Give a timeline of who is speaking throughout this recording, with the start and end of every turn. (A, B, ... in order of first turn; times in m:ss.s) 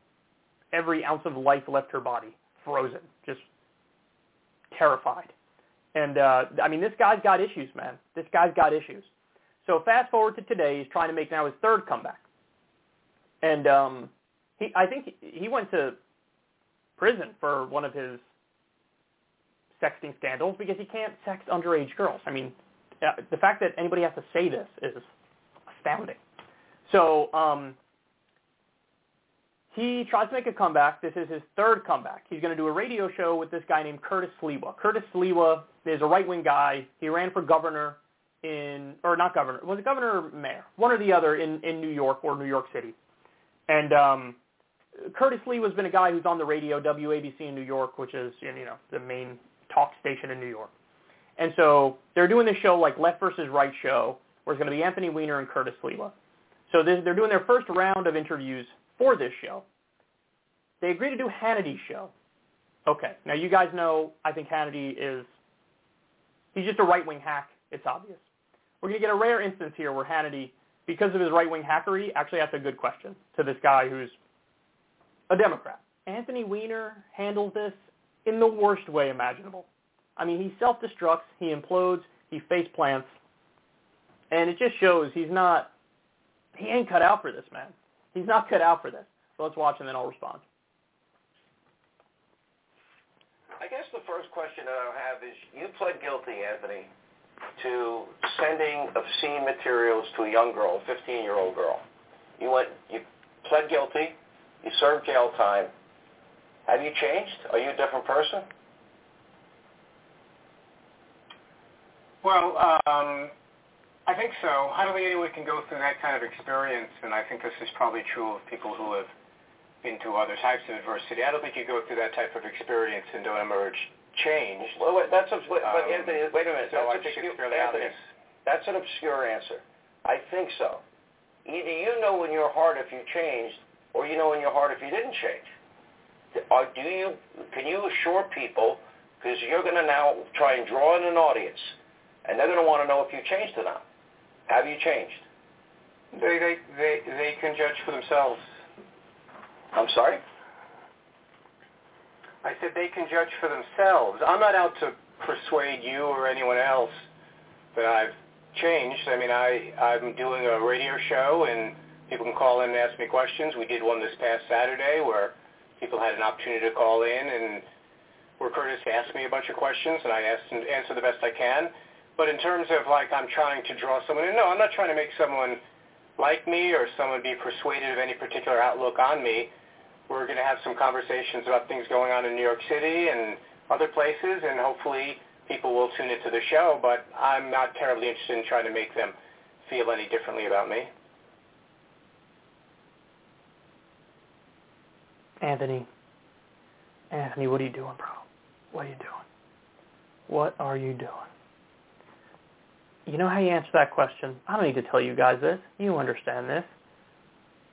0:00.7-0:03.4 A
0:04.7-0:05.3 A
0:05.9-0:09.1 A
0:09.6-0:12.2 A
0:13.4-0:16.0 A
0:17.0-0:18.2 A
0:19.8-0:25.1 A
0:25.7-0:26.2 A
0:26.9-0:27.8 A
0:29.7-0:42.9 A
0:43.7-0:44.4 A
0:45.0-0:50.7 A
0:51.4-0:56.1 A
0:56.7-0:59.6 A
1:00.8-1:02.1 A
1:02.9-1:05.3 A
1:06.5-1:08.2 A
1:08.8-1:14.2 A
1:15.3-1:19.6 A
1:20.2-1:23.1 A
1:24.3-1:25.7 A
1:26.6-1:30.4 A
1:33.6-1:36.9 B
1:37.6-1:41.8 B
1:42.4-1:45.7 B
1:46.6-1:48.5 B
1:52.2-1:53.3 C
1:54.0-1:59.1 C
1:59.8-2:04.8 C
2:04.7-2:10.8 B
2:05.7-2:06.1 C
2:06.7-2:08.0 C
2:11.4-2:15.5 B
2:16.3-2:23.8 B
2:24.5-2:25.2 B
2:26.1-2:28.4 C
2:29.7-2:30.2 B
2:32.4-2:37.0 C
2:37.7-2:47.6 C
2:48.4-2:55.6 C
2:56.2-2:59.5 C
3:00.1-3:10.9 C
3:15.4-3:15.9 A
3:17.1-3:19.2 A
3:20.3-3:21.2 A
3:23.1-3:26.7 A